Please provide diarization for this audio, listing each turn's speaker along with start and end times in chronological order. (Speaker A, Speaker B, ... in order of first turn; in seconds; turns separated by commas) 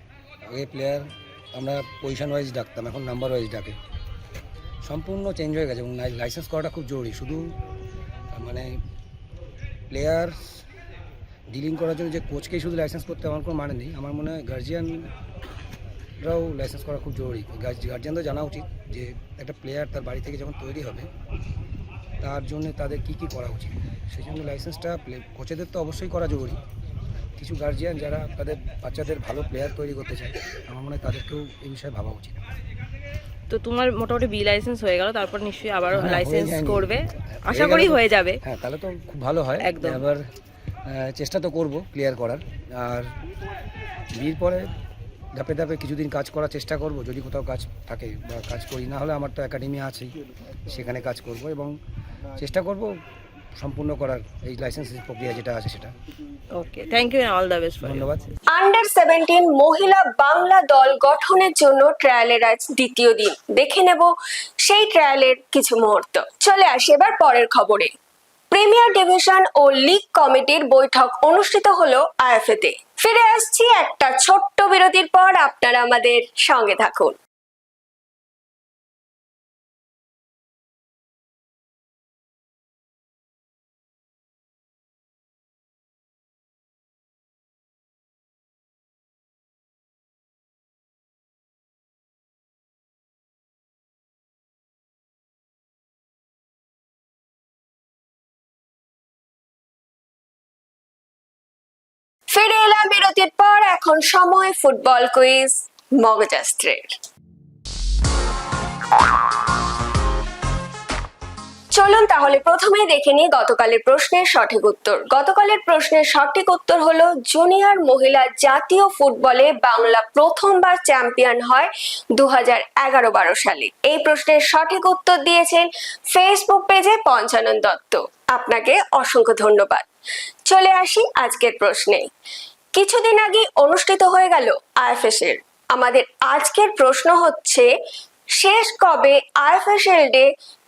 Speaker A: 0.5-3.8, Speaker A: 4.8-7.5, Speaker A: 8.3-8.8, Speaker A: 9.9-10.6, Speaker A: 11.5-15.1, Speaker A: 16.2-21.1, Speaker A: 22.2-26.6, Speaker A: 27.4-32.4, Speaker B: 33.5-38.4, Speaker A: 35.9-40.2, Speaker B: 39.6-40.0, Speaker A: 40.8-43.1, Speaker A: 44.1-44.7, Speaker A: 45.3-50.1, Speaker A: 50.7-51.7, Speaker A: 52.4-52.9, Speaker A: 53.5-55.9, Speaker B: 56.5-58.1, Speaker A: 57.8-58.3, Speaker C: 58.5-67.9, Speaker C: 68.5-77.2, Speaker C: 102.3-106.9, Speaker C: 111.7-129.8, Speaker C: 130.5-132.1, Speaker C: 132.8-137.7, Speaker C: 138.4-140.3